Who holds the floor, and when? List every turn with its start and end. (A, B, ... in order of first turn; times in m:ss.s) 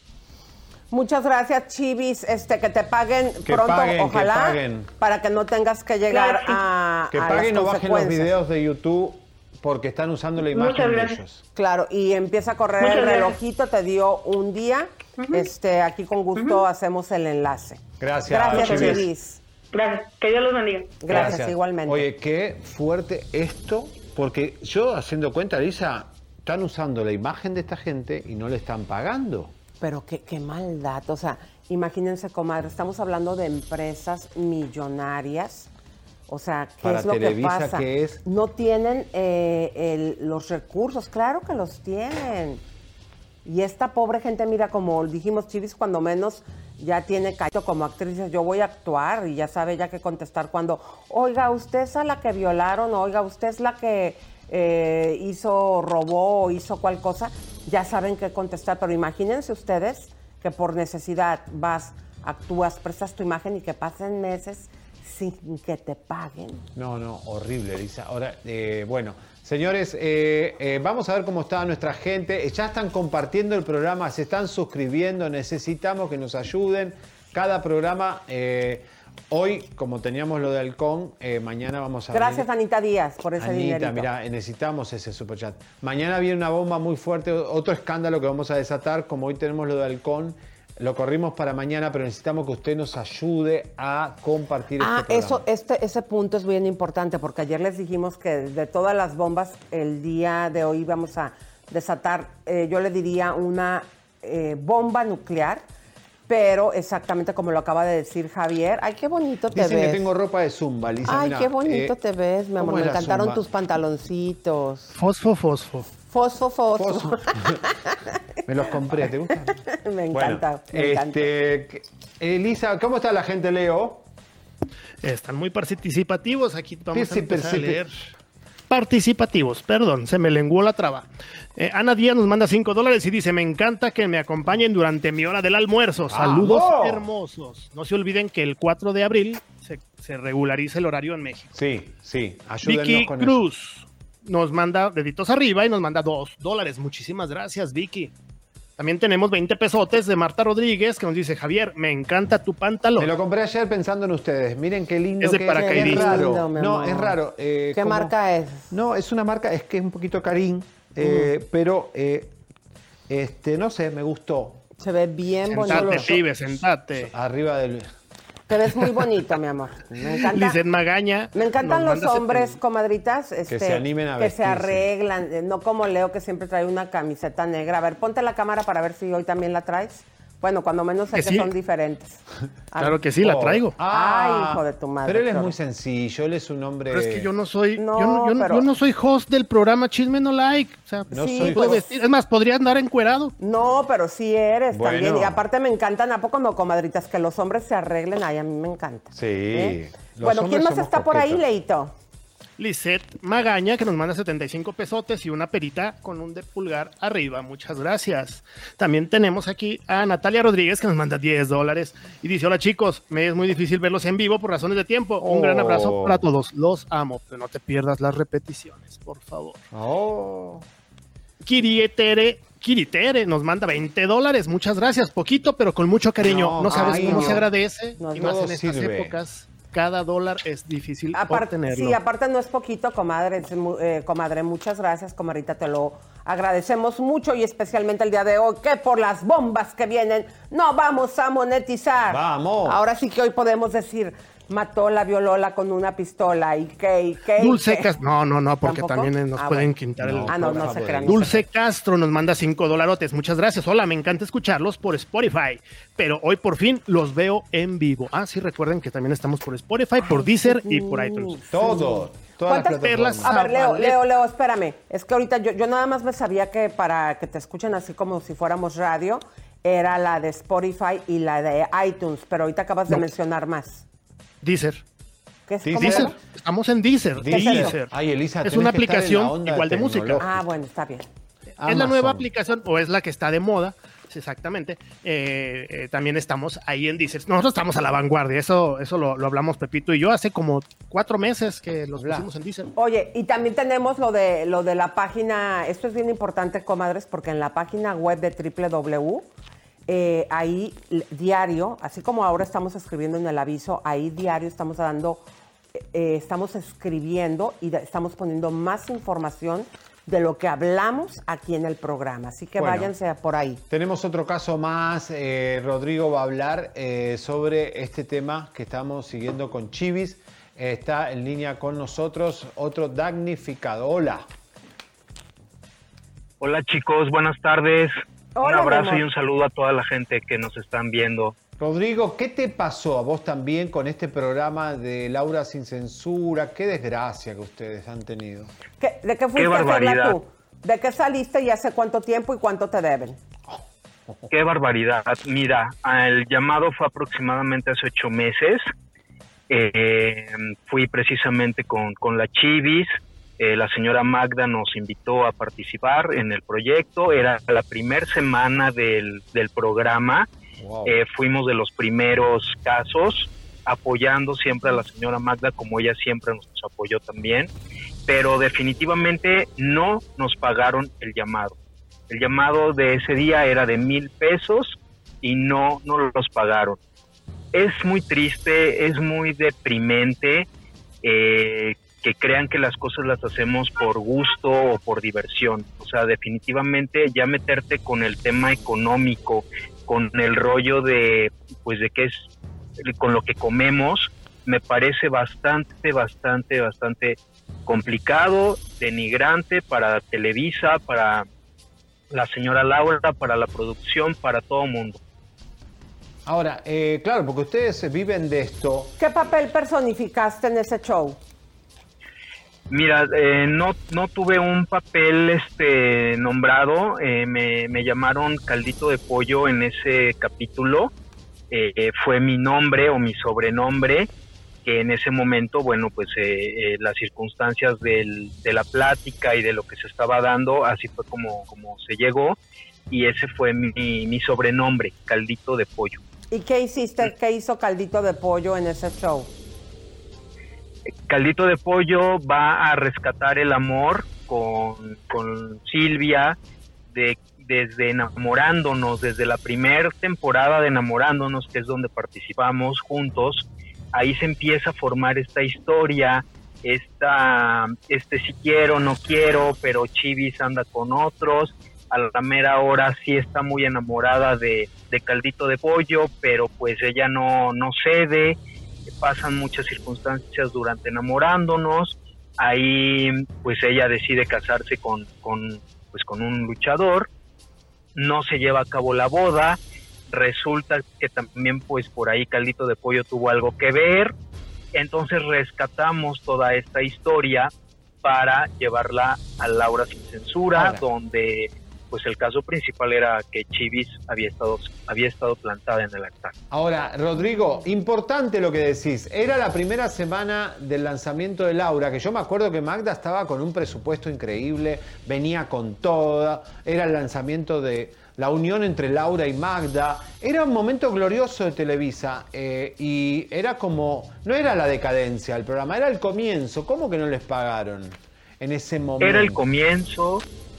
0:00.9-0:08.3 A
0:03.4-0:04.9 B
0:06.1-0:06.6 C
0:07.1-0:11.4 B
0:10.5-0:11.2 C
0:11.5-0:19.4 A
0:12.8-0:13.4 C
0:15.2-0:15.5 C
0:16.4-0:16.6 C
0:18.0-0:19.1 B
0:18.5-0:19.1 C
0:19.7-0:21.4 C
0:21.0-0:22.1 A
0:21.1-0:29.5 B
0:29.8-0:35.7 A
0:36.3-0:42.6 A
0:36.8-0:38.2 B
0:43.4-1:06.6 A
1:06.7-1:22.5 B
1:22.1-1:24.1 A
1:23.4-1:35.4 B
1:34.8-1:45.6 A
1:46.3-1:50.1 A
1:49.5-1:51.9 B
1:51.0-1:54.9 A
1:52.6-1:53.4 B
1:54.9-1:55.9 D
1:56.1-1:58.0 A
1:56.8-1:57.6 B
1:58.5-1:59.6 B
1:58.9-2:01.3 A
2:00.1-2:04.0 B
2:05.0-2:08.0 D
2:06.9-2:07.9 B
2:08.7-2:21.6 D
2:16.1-2:17.0 B
2:21.5-2:23.4 B
2:22.6-2:28.1 D
2:28.8-2:33.1 D
2:33.0-2:38.1 B
2:35.2-2:36.2 D
2:35.5-2:37.2 A
2:37.7-2:38.7 A
2:38.7-2:42.3 B
2:41.0-2:41.3 A
2:43.1-2:44.6 B
2:44.8-2:46.1 A
2:45.4-2:46.2 B
2:45.6-2:47.1 D
2:47.0-2:47.9 B
2:48.5-2:50.6 A
2:50.3-2:52.6 D
2:51.3-3:02.2 A
2:53.5-2:54.8 B
3:01.1-3:01.5 D
3:02.7-3:03.0 A
3:02.8-3:03.8 D
3:03.2-3:07.3 B
3:03.8-3:05.5 A
3:06.9-3:13.3 D
3:07.8-3:08.6 A
3:11.1-3:11.8 B
3:11.1-3:11.9 A
3:13.4-3:21.9 A
3:14.7-3:15.4 B
3:19.1-3:21.4 B
3:22.6-3:39.6 D
3:35.2-3:36.2 B
3:39.7-3:40.6 B
3:41.4-3:52.0 D
3:46.2-3:47.5 B
3:46.6-3:47.4 A
3:48.0-3:48.5 A
3:48.2-3:49.2 B
3:51.1-4:07.9 A
4:02.1-4:02.8 B
4:07.4-4:10.3 D
4:08.6-4:09.7 A
4:10.0-4:11.4 B
4:10.2-4:11.4 A
4:11.0-4:21.4 D
4:20.0-4:33.8 A
4:21.5-4:23.4 B
4:22.6-4:24.0 D
4:34.4-4:34.8 D
4:35.5-4:36.1 A
4:35.6-4:36.2 B
4:35.8-4:37.9 D
4:37.2-4:40.5 B
4:37.3-4:37.8 A
4:38.4-4:40.3 D
4:40.2-4:41.1 A
4:41.6-4:42.2 B
4:41.6-4:52.7 D
4:52.0-4:52.3 B
4:52.8-4:59.2 A
4:59.9-5:05.2 A
5:05.8-5:13.6 A
5:12.6-5:12.9 B
5:13.7-5:24.2 B
5:26.4-5:31.3 E
5:28.4-5:29.1 A
5:31.6-5:38.5 B
5:38.8-5:43.2 A
5:39.4-5:40.2 E
5:44.3-5:48.7 E
5:49.5-6:00.3 E
6:00.6-6:01.0 B
6:00.8-6:07.5 E
6:08.1-6:11.6 E
6:12.1-6:16.8 E
6:17.5-6:20.5 E
6:21.0-6:32.3 E
6:32.8-6:41.2 E
6:42.1-6:45.0 E
6:46.2-6:48.9 B
6:49.0-6:51.2 A
6:52.7-7:00.9 E
7:01.5-7:04.1 E
7:04.6-7:12.4 E
7:12.9-7:16.0 E
7:16.3-7:19.3 A
7:21.1-7:26.4 E
7:26.9-7:48.4 E
7:49.0-7:57.1 E
7:57.9-8:04.1 E
8:04.7-8:07.5 E
8:08.0-8:16.3 E
8:10.5-8:10.8 B
8:16.5-8:39.4 B
8:39.0-8:40.2 E